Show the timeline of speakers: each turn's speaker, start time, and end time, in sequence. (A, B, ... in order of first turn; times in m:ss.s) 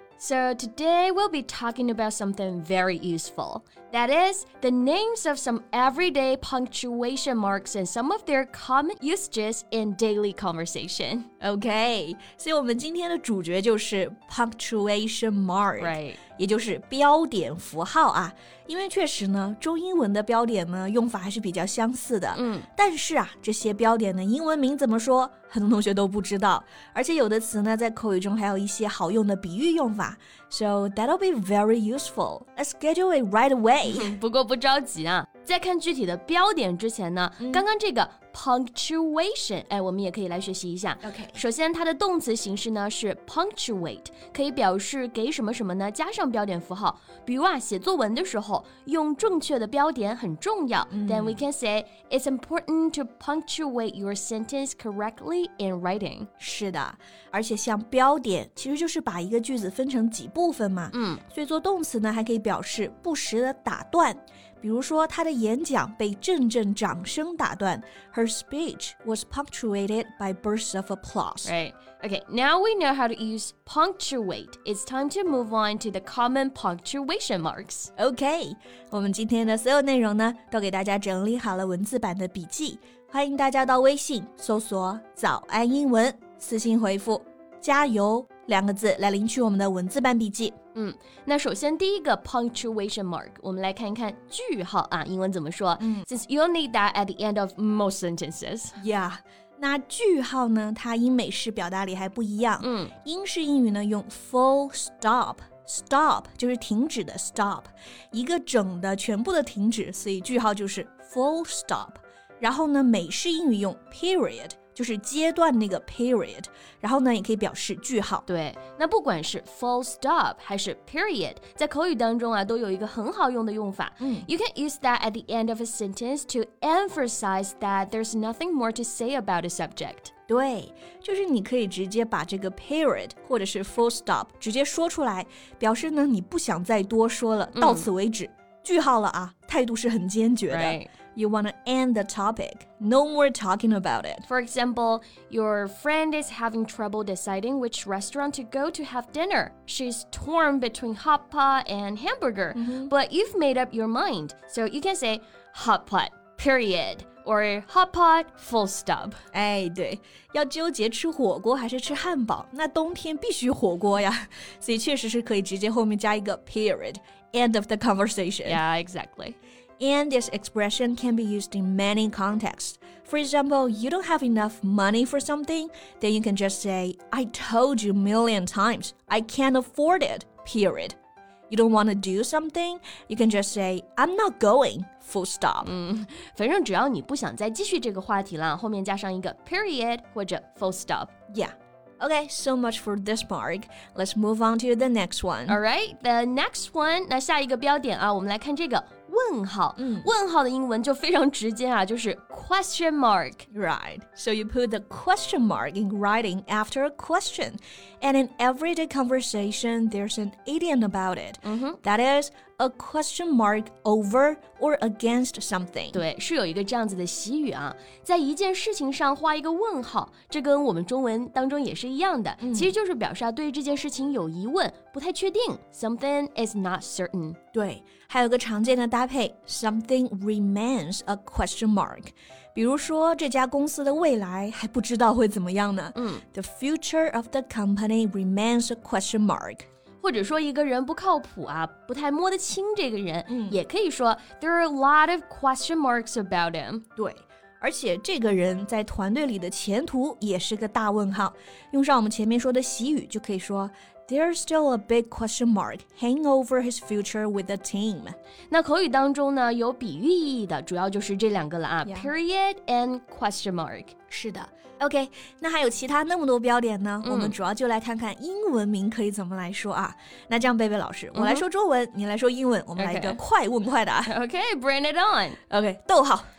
0:00.2-0:11.3 A
0:11.4-0:34.1 B
0:15.8-0:16.2 A
0:22.3-0:22.7 A
0:33.8-0:56.3 A
0:37.4-0:37.6 B
0:41.0-0:41.4 B
0:50.9-0:51.4 B
0:56.4-1:11.5 B
1:00.9-1:01.2 A
1:11.4-1:17.9 A
1:18.0-1:30.6 B
1:30.7-1:38.8 A
1:35.8-1:36.1 B
1:38.8-1:58.2 B
1:42.6-1:42.9 A
1:58.3-2:10.1 A
2:04.0-2:04.3 B
2:10.3-2:24.2 B
2:17.5-2:17.9 A
2:20.5-2:20.9 A
2:24.2-2:39.2 A
2:32.5-2:32.9 B
2:39.3-2:48.6 B
2:48.4-2:49.4 A
2:49.8-3:01.0 B
3:01.5-3:05.7 B
3:05.6-3:11.1 A
3:11.3-3:15.6 B
3:15.5-3:23.5 A
3:19.8-3:20.1 B
3:23.5-3:36.0 B
3:31.4-3:31.8 A
3:35.9-3:47.4 A
3:42.4-3:42.7 B
3:47.5-3:59.6 B
3:55.9-3:56.2 A
4:00.0-4:06.8 A
4:03.3-4:03.6 B
4:07.0-4:18.2 B
4:18.5-4:23.9 A
4:21.8-4:22.1 B
4:24.1-4:34.1 B
4:27.0-4:27.3 A
4:31.1-4:31.4 A
4:32.8-4:33.2 A
4:34.1-4:35.4 A
4:35.5-4:36.3 B